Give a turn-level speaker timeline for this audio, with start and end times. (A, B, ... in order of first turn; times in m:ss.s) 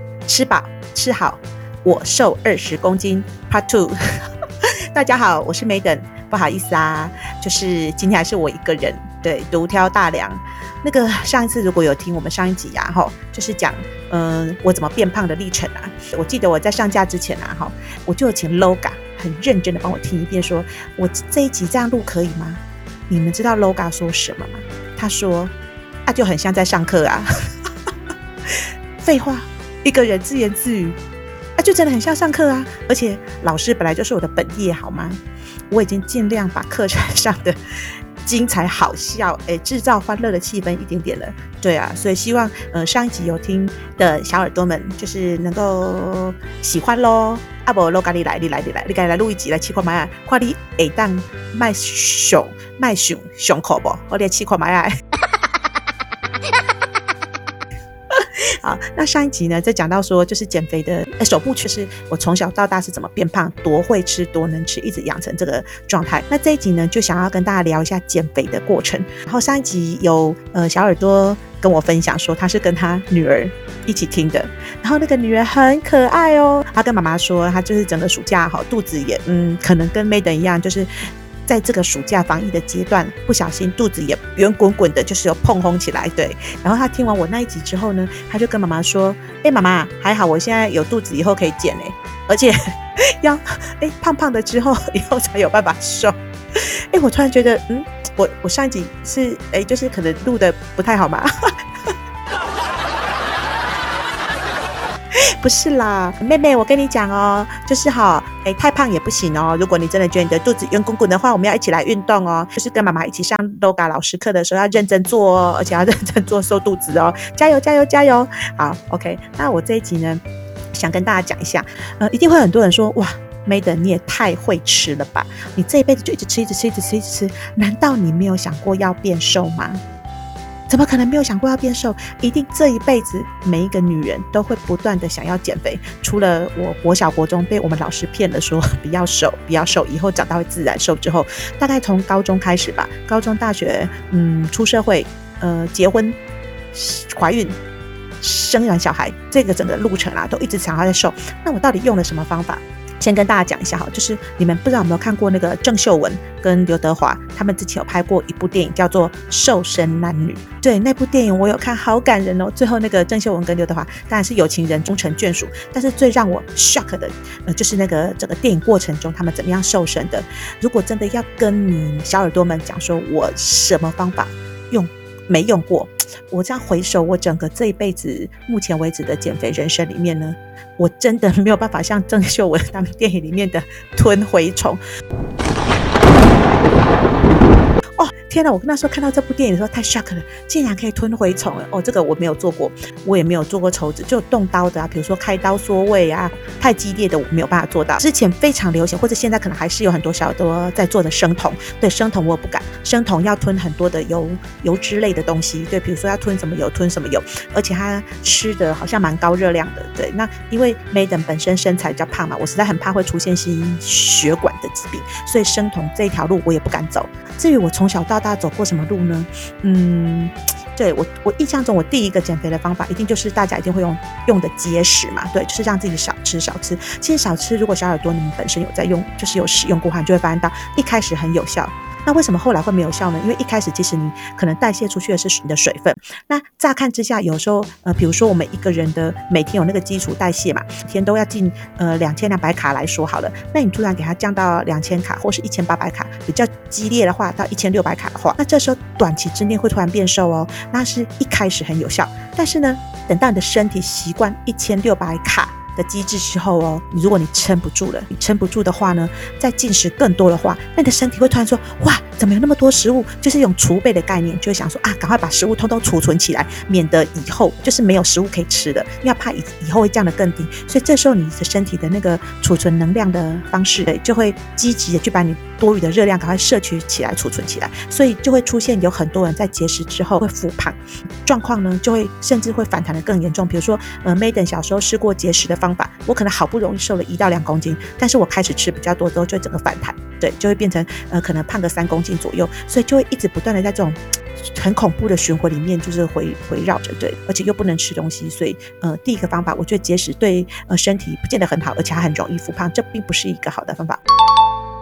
0:00.3-0:04.0 A
0:04.9-0:25.5 A
0:26.1-0:27.3 A
0:28.5-0:31.0 A
0:31.6-0:37.6 A
0:38.2-0:54.9 A
0:58.1-1:20.9 A
1:21.5-1:32.6 A
1:33.2-1:41.3 A
1:45.4-2:00.2 A
2:00.7-2:09.8 A
2:10.7-2:26.2 A
2:26.7-2:27.6 A
2:28.2-3:04.8 A
3:08.0-4:54.0 A
4:54.5-5:04.0 A